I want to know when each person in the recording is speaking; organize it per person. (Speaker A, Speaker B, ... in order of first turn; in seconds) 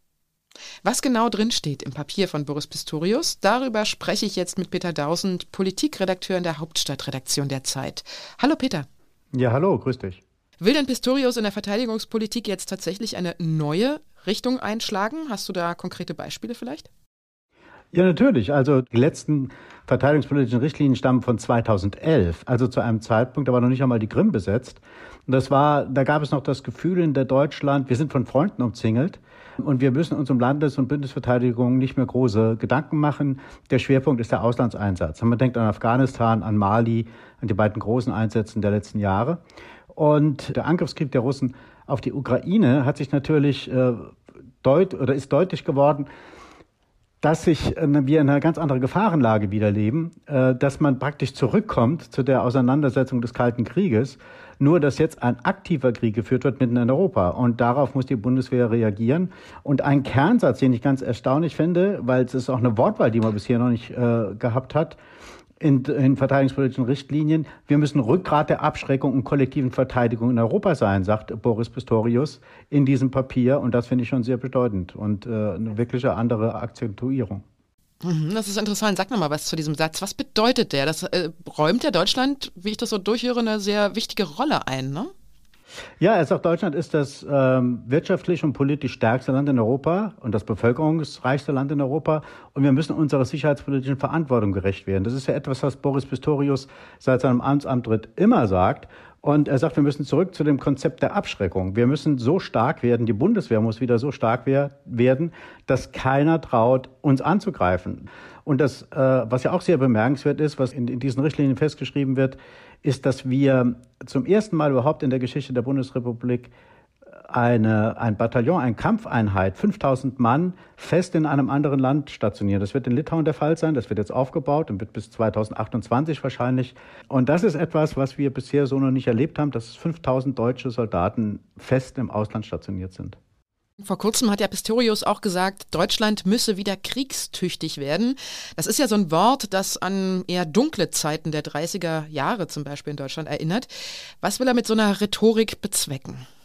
Speaker A: 0.8-8.9, 10.6-16.9, 78.0-85.1, 133.8-143.7, 144.2-146.2
Speaker B: 9.3-10.2, 17.9-46.1, 47.2-65.0, 65.6-77.4, 86.0-116.5, 117.3-133.2